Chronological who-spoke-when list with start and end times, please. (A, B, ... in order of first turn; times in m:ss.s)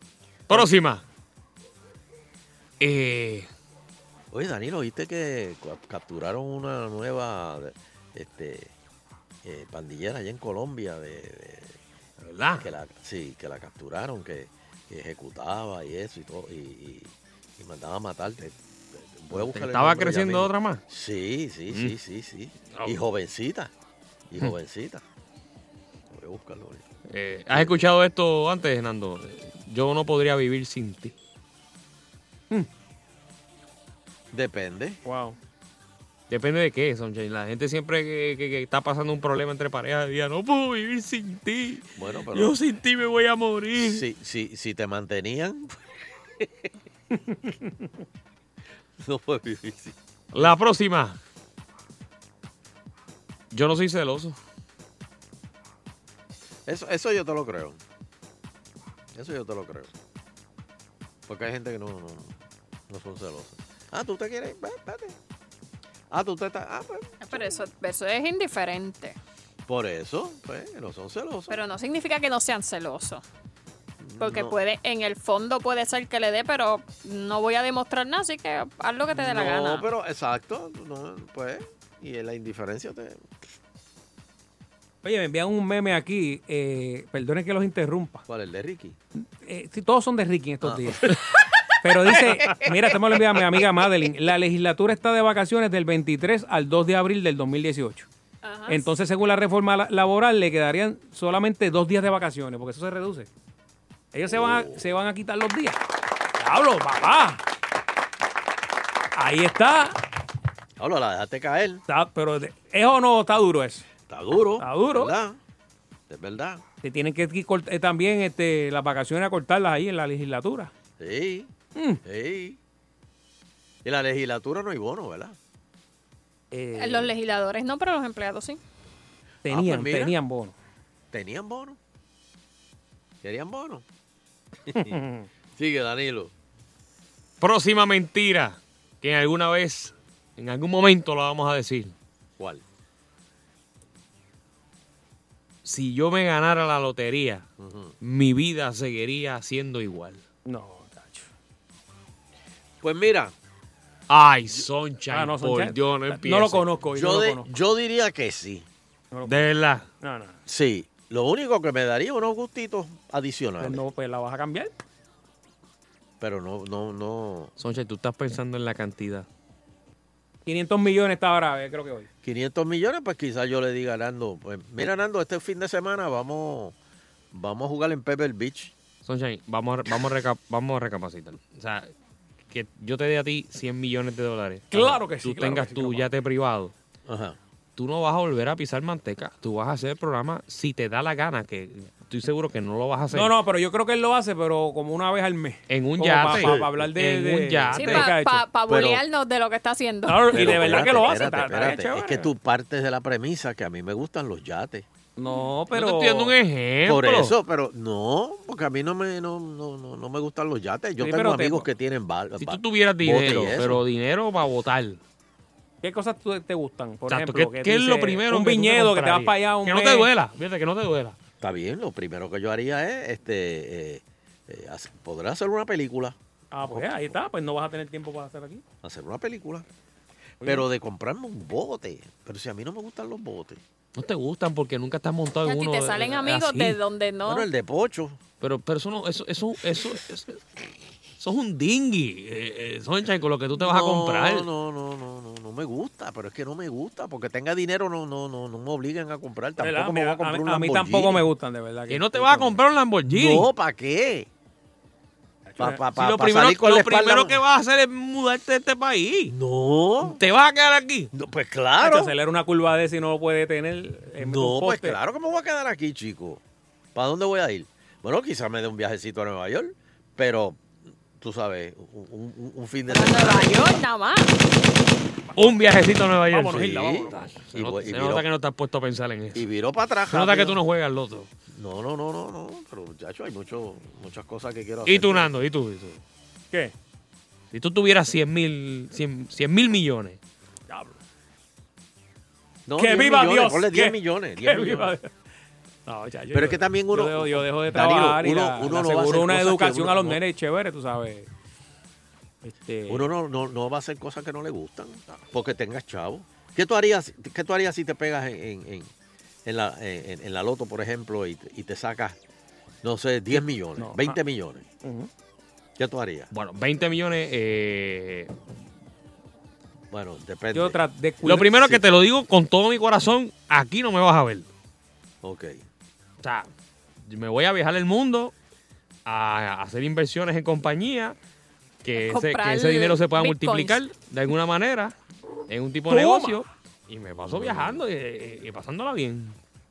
0:00.5-0:01.0 A
0:02.8-0:03.5 A
0:04.3-0:08.7 B
0:09.4-0:11.8 B
0:12.2-0:12.7 A
0:12.6-0:23.7 B
0:19.3-0:20.8 A
0:22.7-0:23.0 A
0:24.3-0:25.0 B
0:26.1-0:26.8 B
0:27.1-0:31.1 A
0:27.5-0:27.8 B
0:34.3-0:35.0 B
0:35.0-0:35.4 C
0:36.3-0:44.0 A
0:42.0-0:42.5 B
0:43.8-0:45.8 B
0:47.1-0:47.9 C
0:49.0-0:50.5 B
0:50.3-0:51.2 A
0:53.5-0:54.4 A
0:56.6-0:57.8 B
0:59.1-0:59.9 B
1:01.3-1:02.3 B
1:02.9-1:05.2 B
1:06.1-1:07.6 B
1:07.2-1:09.2 D
1:09.7-1:11.6 B
1:11.5-1:13.2 D
1:14.0-1:14.5 B
1:14.2-1:19.8 D
1:19.1-1:23.2 B
1:25.0-1:28.2 C
1:28.3-1:29.0 B
1:29.4-1:31.1 C
1:30.6-1:31.0 B
1:31.8-1:38.1 C
1:32.3-1:32.7 B
1:38.4-1:38.9 D
1:38.7-1:43.3 C
1:44.1-1:45.8 C
1:44.3-1:44.7 B
1:46.4-1:47.4 C
1:49.1-1:50.0 C
1:50.8-1:51.8 B
1:51.9-1:53.9 C
1:54.1-1:55.4 B
1:54.6-1:55.2 C
1:56.1-1:56.6 B
1:56.8-2:00.7 C
2:01.0-2:01.5 B
2:01.7-2:02.0 C
2:02.0-2:02.6 B
2:03.8-2:05.4 B
2:06.5-2:07.1 C
2:06.8-2:08.6 D
2:09.4-2:10.5 C
2:09.5-2:10.2 B
2:11.1-2:11.8 B
2:13.2-2:13.8 B
2:14.7-2:15.0 B
2:14.7-2:15.3 C
2:15.6-2:16.3 B
2:17.4-2:21.9 A
2:22.4-2:22.6 B
2:25.6-2:27.4 A
2:27.6-2:27.9 B
2:28.0-2:30.2 A
2:30.4-2:31.3 C
2:32.8-2:33.3 B
2:34.1-2:36.7 A
2:35.1-2:37.5 C
2:36.9-2:38.7 B
2:39.1-2:39.4 C
2:39.2-2:39.8 A
2:40.0-2:40.4 C
2:40.5-2:43.8 B
2:43.6-2:44.7 C
2:46.2-2:47.5 B
2:47.6-2:49.2 A
2:50.4-2:52.1 C
2:52.2-2:56.7 B
2:57.3-2:58.7 B
2:59.0-3:01.9 A
3:02.5-3:06.7 A
3:04.7-3:06.1 C
3:07.1-3:07.4 B
3:07.8-3:13.3 A
3:13.1-3:18.4 C
3:15.7-3:18.1 A
3:16.3-3:16.7 B
3:17.7-3:20.9 D
3:18.7-3:19.0 B
3:20.0-3:22.3 C
3:20.3-3:24.8 B
3:25.2-3:26.3 C
3:25.7-3:27.3 A
3:26.8-3:33.8 B
3:31.0-3:31.7 C
3:32.4-3:35.0 A
3:35.8-3:40.1 C
3:37.1-3:41.2 A
3:41.4-3:47.1 B
3:46.5-3:48.6 C
3:48.8-3:49.6 B
3:50.4-3:50.6 C
3:50.4-3:53.6 B
3:54.0-3:56.8 A
3:55.4-3:57.5 D
3:57.2-3:58.2 B
3:58.4-4:00.4 A
4:01.2-4:04.5 A
4:03.6-4:11.2 B
4:09.6-4:12.5 C
4:11.9-4:13.5 A
4:13.1-4:14.3 B
4:15.5-4:15.8 C
4:15.6-4:17.4 B
4:15.9-4:19.3 A
4:19.3-4:20.2 B
4:20.0-4:21.1 A
4:21.1-4:22.1 B
4:21.8-4:25.0 C
4:24.2-4:26.4 B
4:26.9-4:30.6 B
4:31.2-4:33.8 B
4:32.9-4:34.3 D
4:35.4-4:36.7 A
4:36.3-4:37.4 C
4:36.5-4:38.2 B
4:37.3-4:39.4 A
4:39.3-4:40.6 B
4:40.1-4:41.3 A
4:41.5-4:45.3 B
4:44.8-4:46.0 A
4:47.5-4:50.2 A
4:50.7-4:51.0 C
4:52.7-4:54.9 B
4:52.8-4:55.1 C
4:55.8-5:01.3 C
4:56.3-5:00.2 B
5:02.4-5:03.0 C
5:02.9-5:08.9 B
5:09.4-5:12.2 B
5:12.8-5:14.6 B
5:13.3-5:14.2 C
5:14.8-5:15.1 C
5:15.8-5:16.3 B
5:16.3-5:18.3 A
5:19.9-5:20.8 B
5:20.5-5:21.7 C
5:21.2-5:24.5 A
5:25.2-5:25.6 B
5:26.2-5:26.5 A
5:27.0-5:28.3 A
5:29.0-5:31.2 A
5:31.8-5:34.9 A
5:32.0-5:33.8 D
5:35.5-5:39.4 A
5:35.9-5:36.4 C
5:37.3-5:37.8 B